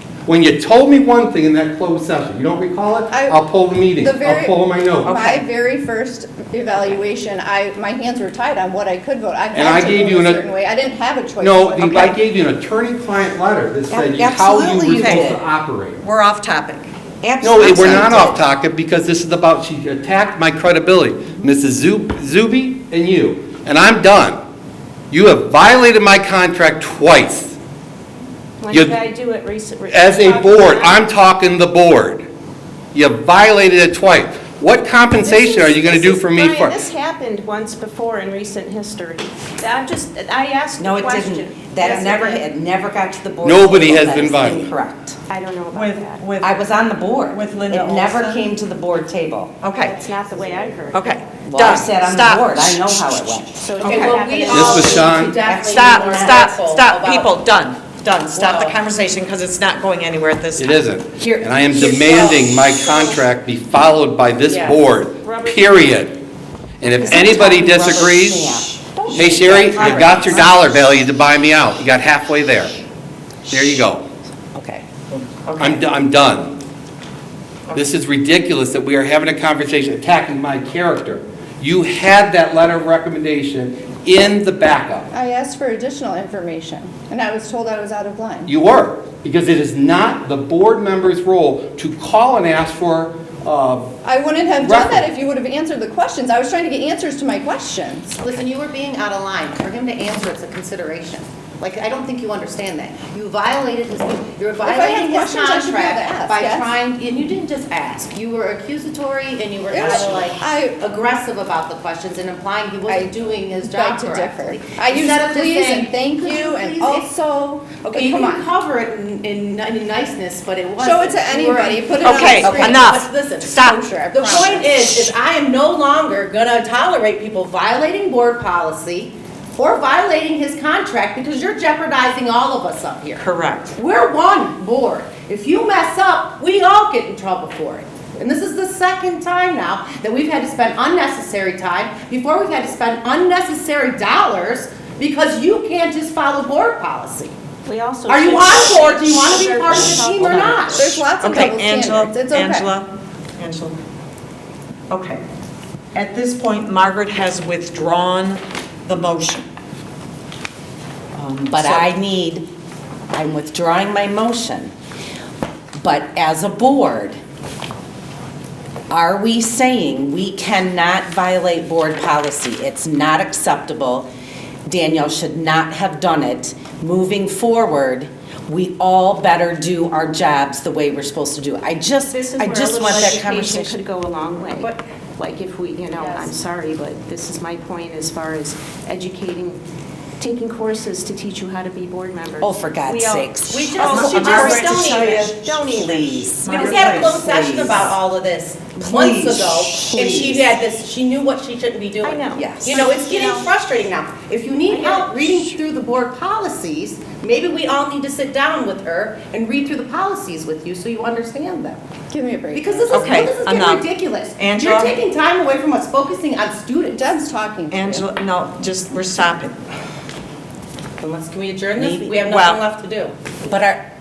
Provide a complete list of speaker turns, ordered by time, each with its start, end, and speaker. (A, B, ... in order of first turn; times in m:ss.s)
0:00.3-0:05.2 A
0:03.1-0:03.4 B
0:04.0-0:12.2 B
0:05.1-0:05.4 C
0:09.5-0:10.4 A
0:11.4-0:16.0 A
0:13.9-0:15.4 C
0:15.0-0:15.3 D
0:16.0-0:16.9 D
0:17.2-0:18.4 C
0:17.4-0:24.4 A
0:17.6-0:18.0 D
0:25.1-0:27.6 A
0:28.6-0:31.0 E
0:28.7-0:29.0 A
0:29.9-0:32.2 A
0:32.9-0:36.8 A
0:35.2-0:42.4 E
0:40.8-0:45.2 C
0:43.4-0:44.7 A
0:45.3-0:46.3 E
0:45.7-0:46.7 D
0:46.4-0:49.5 C
0:47.2-0:48.4 D
0:49.6-0:50.0 D
0:49.8-0:51.2 E
0:50.9-0:53.0 D
0:51.4-0:53.6 C
0:53.6-0:55.4 E
0:53.8-0:54.2 D
0:53.8-0:57.3 F
0:54.5-0:55.4 A
0:55.2-0:56.5 C
0:55.6-1:00.8 D
0:58.3-0:58.8 F
1:00.6-1:06.2 A
1:01.2-1:02.2 C
1:02.6-1:03.2 E
1:04.5-1:04.8 F
1:05.1-1:06.1 E
1:06.8-1:08.5 A
1:06.9-1:10.8 C
1:08.9-1:10.4 D
1:09.1-1:12.7 A
1:13.5-1:14.0 A
1:14.6-1:14.8 C
1:15.1-1:15.8 D
1:15.6-1:16.5 A
1:17.7-1:25.1 A
1:25.1-1:28.5 B
1:28.5-1:33.9 A
1:34.0-1:38.2 B
1:34.6-1:35.1 A
1:38.2-1:57.1 F
1:44.6-1:46.7 B
1:49.7-1:50.8 B
1:52.9-1:58.5 B
1:57.8-2:27.3 F
2:00.8-2:04.9 B
2:02.0-2:03.8 D
2:13.2-2:13.8 D
2:27.6-2:30.8 E
2:28.1-2:30.9 F
2:29.7-2:33.8 D
2:30.7-2:32.7 B
2:34.9-2:35.2 D
2:35.9-2:39.5 D
2:41.1-2:42.5 C
2:41.6-2:41.9 D
2:43.1-2:44.7 C
2:45.8-2:47.2 C
2:48.9-2:54.1 C
2:54.7-3:03.8 C
3:02.1-3:09.6 E
3:06.0-3:06.3 F
3:10.2-3:16.9 E
3:12.4-3:17.9 C
3:13.5-3:15.2 F
3:13.8-3:15.3 D
3:16.4-3:17.8 D
3:16.5-3:31.8 F
3:18.8-3:20.4 D
3:18.9-3:20.4 C
3:22.0-3:23.5 E
3:22.4-3:22.8 C
3:24.7-3:25.2 E
3:32.1-3:33.1 B
3:32.5-3:37.2 F
3:32.9-3:35.0 D
3:36.9-3:38.0 B
3:37.7-3:39.5 D
3:41.0-3:43.1 F
3:41.8-3:42.2 C
3:42.1-3:42.6 D
3:43.4-3:43.8 C